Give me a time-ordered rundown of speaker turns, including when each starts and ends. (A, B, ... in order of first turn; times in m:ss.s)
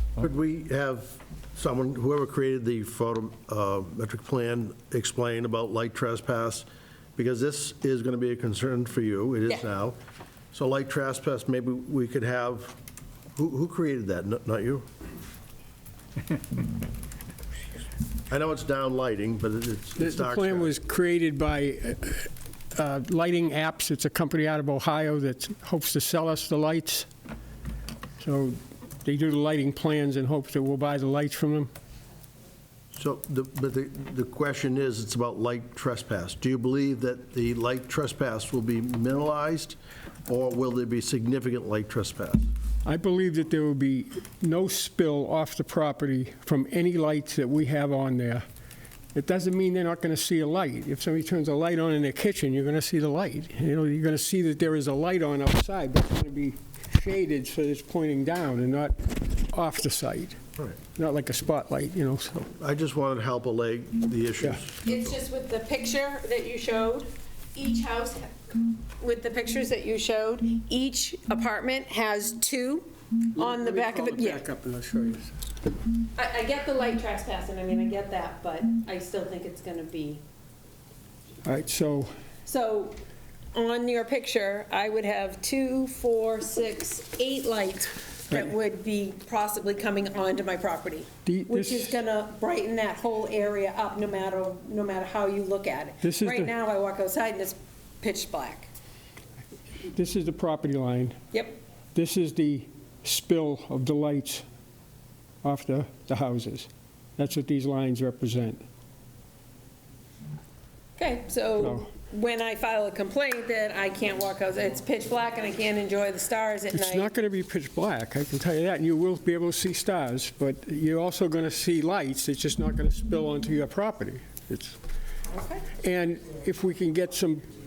0:00.2-0:10.0 A
0:10.5-0:12.8 A
0:13.4-0:14.9 A
0:18.3-0:20.8 A
0:20.0-0:27.1 B
0:28.2-0:31.7 B
0:32.9-0:42.5 A
0:42.8-0:48.4 B
0:49.2-1:00.4 B
1:01.0-1:02.5 B
1:02.6-1:04.9 A
1:04.8-1:14.4 C
1:13.4-1:15.3 B
1:16.2-1:20.2 C
1:21.4-1:22.1 B
1:22.5-1:23.0 C
1:23.5-1:38.7 C
1:31.3-1:31.9 B
1:36.0-1:36.5 B
1:39.9-1:41.2 B
1:41.9-1:44.4 B
1:45.4-1:48.6 B
1:51.0-1:57.1 C
1:51.6-1:51.9 B
1:56.7-2:04.8 B
2:05.3-2:05.6 C
2:05.7-2:07.5 B